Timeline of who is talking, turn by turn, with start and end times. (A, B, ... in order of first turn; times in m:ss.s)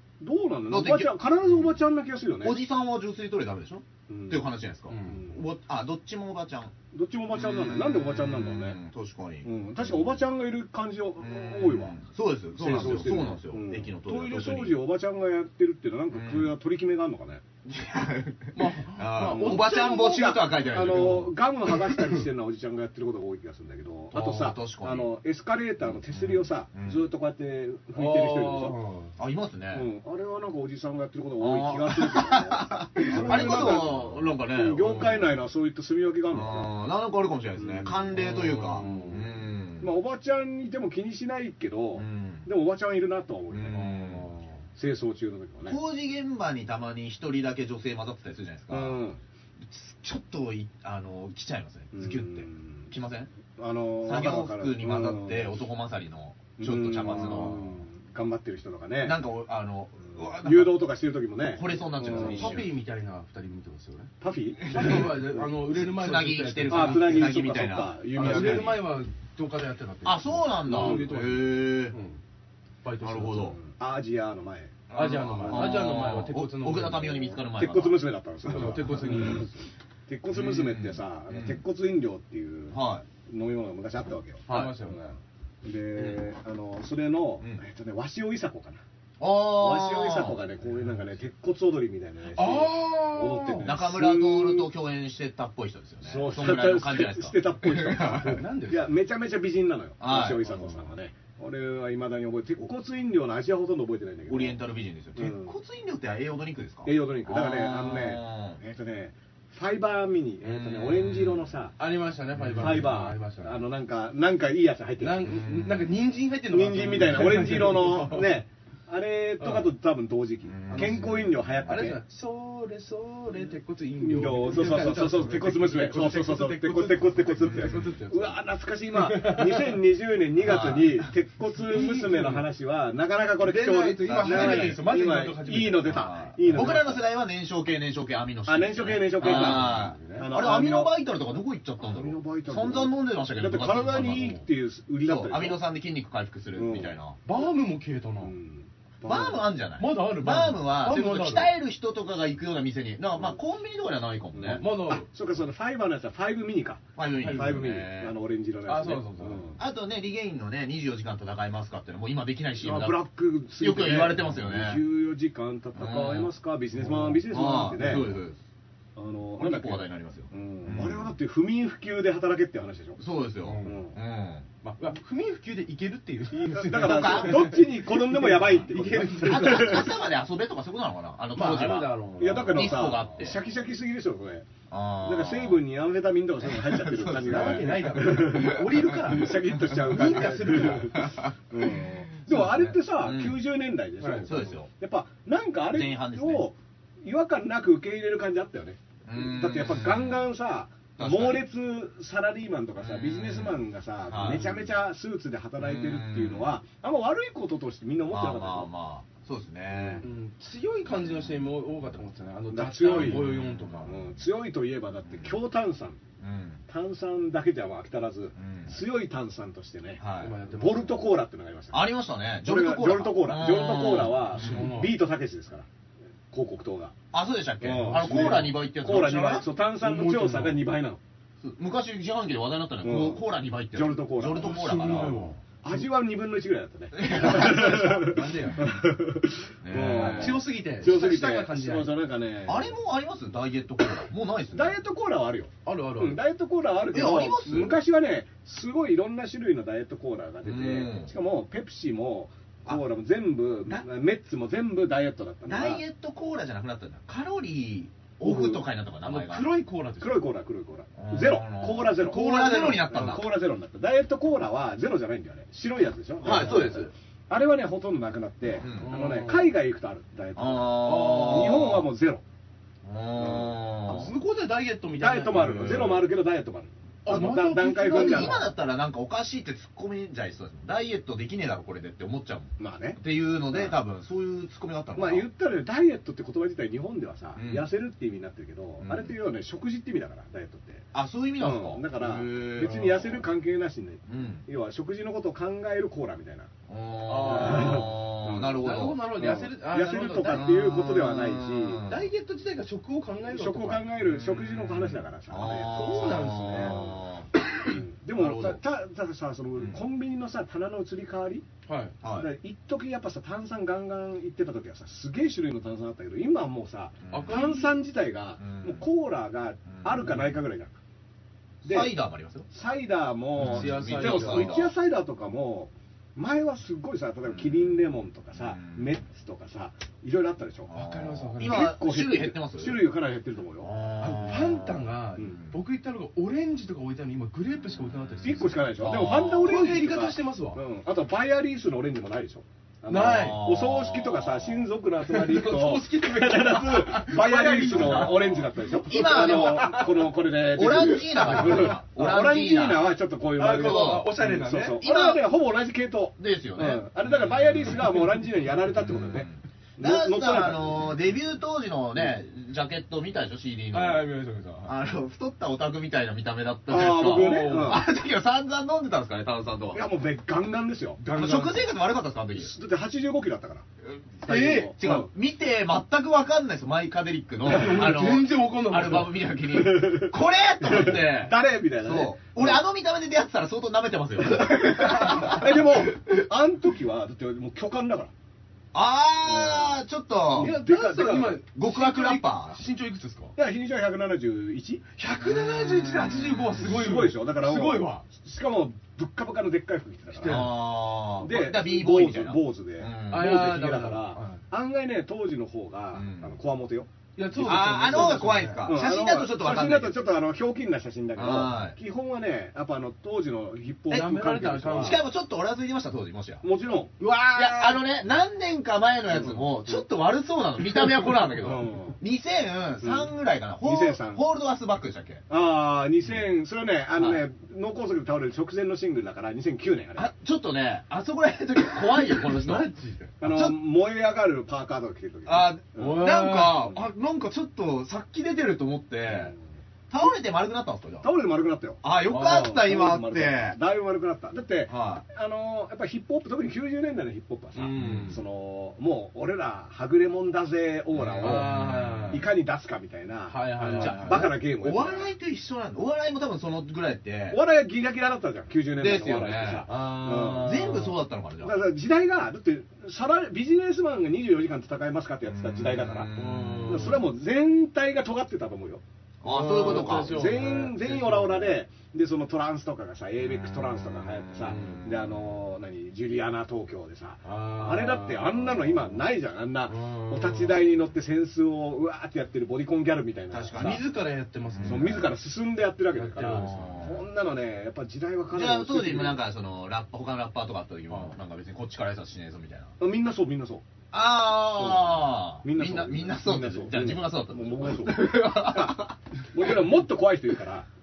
0:00.2-0:02.6 A
0:00.7-0:01.8 B
0:02.4-0:06.7 B
0:04.1-0:04.4 A
0:04.9-0:05.2 C
0:05.1-0:05.4 A
0:06.9-0:08.8 A
0:07.3-0:10.2 B
0:09.4-0:12.0 A
0:11.2-0:14.8 B
0:12.6-0:17.4 A
0:16.1-0:16.5 B
0:17.6-0:21.4 B
0:18.5-0:19.8 C
0:19.2-0:28.8 A
0:24.1-0:25.1 B
0:25.8-0:27.1 B
0:28.0-0:29.1 C
0:29.2-0:29.9 B
0:29.7-0:36.7 A
0:31.4-0:35.3 B
0:33.1-0:33.8 C
0:36.3-0:39.9 B
0:37.6-0:38.1 A
0:38.1-0:39.3 C
0:38.8-0:39.2 A
0:39.8-0:43.8 A
0:42.0-0:42.5 B
0:43.5-0:44.3 B
0:43.7-0:44.6 C
0:44.8-0:45.8 A
0:45.6-0:49.0 B
0:48.7-0:49.2 A
0:49.7-0:53.3 B
0:51.9-0:52.9 A
0:53.6-0:55.6 A
0:54.0-0:57.6 B
0:56.6-0:59.2 A
0:57.1-0:57.6 C
0:59.0-1:00.9 B
1:00.1-1:02.6 A
1:01.5-1:02.7 B
1:02.1-1:04.1 C
1:04.2-1:05.5 A
1:04.6-1:08.8 B
1:04.7-1:07.3 C
1:06.7-1:08.8 A
1:08.2-1:12.2 C
1:10.0-1:12.0 B
1:10.7-1:11.0 A
1:12.8-1:13.6 C
1:13.0-1:13.6 B
1:13.6-1:15.8 A
1:14.9-1:17.4 C
1:14.9-1:18.8 B
1:17.6-1:28.8 A
1:18.5-1:19.5 C
1:20.3-1:21.6 B
1:22.7-1:23.1 B
1:24.5-1:24.8 B
1:24.5-1:25.0 C
1:29.2-1:30.4 B
1:29.4-1:34.7 A
1:32.4-1:33.8 C
1:33.6-1:38.4 B
1:36.0-1:44.6 A
1:38.2-1:39.0 C
1:40.0-1:40.5 B
1:44.3-1:48.6 B
1:45.2-1:45.6 A
1:46.8-1:51.8 A
1:50.4-1:51.5 B
1:51.8-1:53.6 C
1:52.4-1:52.9 B
1:52.6-1:55.5 A
1:55.0-1:58.4 C
1:55.2-1:55.9 B
1:56.5-2:02.0 A
1:59.4-1:59.7 C
2:00.5-2:01.9 B
2:00.7-2:08.4 C
2:04.0-2:17.0 A
2:08.9-2:09.8 C
2:10.4-2:11.1 B
2:11.5-2:12.5 C
2:13.4-2:16.8 C
2:14.0-2:14.8 B
2:15.9-2:24.4 B
2:18.5-2:21.0 A
2:19.2-2:20.3 C
2:21.8-2:25.6 A
2:24.1-2:24.4 C
2:25.0-2:27.2 B
2:26.6-2:27.0 A
2:27.2-2:28.3 C
2:28.2-2:29.5 A
2:29.0-2:34.6 B
2:29.8-2:31.6 C
2:34.3-2:39.6 A
2:34.5-2:35.1 C
2:37.0-2:38.2 B
2:37.2-2:37.6 C
2:38.7-2:39.5 C
2:39.6-2:43.0 B
2:42.6-2:48.2 A
2:43.6-2:44.8 B
2:45.8-2:46.3 B
2:46.8-2:47.2 C
2:47.3-2:48.4 B
2:49.0-2:53.0 A
2:49.4-2:51.1 B
2:53.0-2:54.5 B
2:53.4-2:53.8 C
2:53.6-2:54.0 A
2:54.6-2:59.9 C
2:56.3-3:00.0 A
2:56.7-2:57.6 B
2:59.2-3:01.9 B
3:01.3-3:03.0 C
3:02.2-3:04.5 A
3:02.5-3:03.4 B
3:04.7-3:05.6 B
3:05.0-3:28.7 A
3:06.4-3:13.4 B
3:07.1-3:11.0 C
3:14.0-3:14.3 C
3:14.2-3:14.7 B
3:15.7-3:16.5 B
3:19.0-3:20.3 B
3:21.0-3:21.5 B
3:22.8-3:24.7 B
3:25.6-3:26.6 B
3:28.1-3:30.1 B
3:29.7-3:30.0 A
3:30.0-3:34.0 C
3:32.5-3:33.3 A
3:32.8-3:34.1 B
3:33.8-3:36.0 A
3:35.1-3:35.4 B
3:36.2-3:36.6 B
3:36.7-3:41.8 A
3:38.4-3:38.8 B
3:40.0-3:40.4 B
3:40.2-3:41.1 C
3:41.7-3:44.7 B
3:42.4-3:45.7 A
3:44.4-3:45.0 C
3:46.3-3:47.0 A
3:47.1-3:49.5 B
3:47.6-3:51.0 A
3:47.7-3:48.6 C
3:49.8-3:50.6 C
3:51.4-3:55.2 B
3:52.8-4:02.8 A
3:54.3-3:55.4 C
3:56.9-3:58.1 B
3:57.2-3:58.7 C
3:59.6-4:00.4 B
4:00.0-4:01.9 C
4:02.5-4:04.8 B
4:04.5-4:15.8 A
4:05.6-4:06.2 C
4:06.9-4:07.8 B
4:10.4-4:11.1 B
4:15.5-4:19.5 B
4:18.3-4:20.3 C
4:20.0-4:32.2 A
4:21.0-4:23.3 B
4:22.0-4:23.2 C
4:26.2-4:26.9 B
4:26.2-4:26.9 C
4:28.6-4:28.9 B
4:28.7-4:29.5 C
4:30.4-4:31.9 B
4:30.9-4:31.7 C
4:32.8-4:34.2 B
4:33.2-4:33.6 A
4:33.9-4:36.1 C
4:35.0-4:38.5 A
4:35.6-4:35.8 B
4:37.0-4:38.5 C
4:37.8-4:45.3 B
4:42.6-4:43.8 A
4:45.0-4:50.9 A
4:47.4-4:47.7 B
4:48.8-4:49.2 B
4:50.9-4:53.3 B
4:51.4-4:56.5 A
4:54.1-4:54.5 B
4:56.7-4:59.0 B
4:57.1-5:00.7 C
4:57.2-5:01.9 A
5:00.3-5:02.1 B
5:01.8-5:03.9 C
5:03.3-5:11.4 A
5:04.0-5:08.6 B
5:05.7-5:06.8 C
5:11.7-5:12.0 C
5:12.0-5:12.3 B
5:12.1-5:20.7 A
5:17.0-5:17.5 B
5:17.1-5:17.8 C
5:18.4-5:18.8 B
5:19.7-5:20.4 B
5:21.6-5:22.5 B
5:21.6-5:30.8 A
5:23.4-5:24.7 B
5:23.4-5:24.7 C
5:27.3-5:29.0 B
5:30.7-5:31.7 C
5:30.7-5:32.8 B
5:31.4-5:33.7 A
5:33.6-5:34.9 B
5:34.0-5:40.6 C
5:37.9-5:39.6 B
5:38.2-6:00.9 A
5:42.9-5:43.5 C
5:43.0-5:44.6 B
5:45.1-5:50.1 C
5:47.7-5:52.9 B
5:50.6-5:51.8 C
5:53.4-5:54.8 C
5:53.5-5:54.2 B
5:54.8-5:55.3 B
5:56.2-5:58.1 B
5:58.7-6:04.1 B
6:03.7-6:04.7 C
6:04.6-6:09.8 B
6:06.7-6:07.8 A
6:06.9-6:07.8 C
6:09.7-6:11.1 A
6:11.0-6:11.6 C
6:11.1-6:12.5 B
6:12.4-6:13.7 A
6:13.8-6:25.9 B
6:14.3-6:15.1 A
6:14.3-6:14.7 C
6:17.4-6:19.3 C
6:19.5-6:22.6 A
6:24.4-6:28.1 A
6:28.7-6:30.6 B
6:29.2-6:29.8 A
6:30.3-6:31.4 A
6:30.4-6:33.4 C
6:31.6-6:32.6 B
6:33.4-6:34.8 A
6:35.0-6:38.0 C
6:35.2-6:36.7 B
6:36.6-6:40.6 A
6:40.1-6:40.6 C
6:40.2-6:43.4 B
6:41.2-6:55.0 A
6:43.1-6:44.4 C
6:45.9-6:46.4 B
6:47.2-6:48.7 C
6:47.4-6:50.0 B
6:51.2-6:51.8 B
6:53.9-6:55.0 C
6:54.8-6:56.4 B
6:56.4-6:56.9 A
6:57.0-6:57.8 C
6:57.3-7:05.2 B
6:59.1-6:59.4 A
7:01.4-7:02.0 A
7:02.8-7:04.2 A
7:05.3-7:10.1 A
7:07.0-7:07.2 B
7:10.0-7:12.7 B
7:11.8-7:13.1 C
7:13.2-7:16.1 A
7:13.2-7:13.6 B
7:15.3-7:19.3 B
7:15.8-7:16.7 C
7:19.1-7:19.4 A
7:19.9-7:21.1 B
7:21.0-7:31.6 A
7:21.8-7:23.6 B
7:22.1-7:22.5 C
7:24.7-7:25.0 B
7:27.6-7:28.2 C
7:27.8-7:28.2 B
7:30.9-7:32.2 B
7:31.2-7:32.3 C
7:32.1-7:35.1 A
7:33.3-7:34.3 C
7:33.7-7:37.4 B
7:37.3-7:48.8 A
7:38.8-7:41.6 B
7:39.7-7:40.9 C
7:45.3-7:46.9 B
7:46.2-7:47.0 C
7:49.2-7:50.2 B
7:49.2-7:51.6 C
7:49.5-8:03.8 A
7:53.2-7:55.4 B
7:54.5-7:54.9 C
7:57.2-7:58.7 C
7:59.7-8:00.6 C
8:03.3-8:03.8 B
8:03.6-8:05.1 C
8:04.5-8:05.0 B
8:04.6-8:09.2 A
8:05.9-8:06.9 C
8:06.4-8:07.0 B
8:08.3-8:12.7 B
8:10.9-8:11.2 C
8:12.8-8:13.7 A
8:13.9-8:19.6 B
8:14.5-8:20.7 A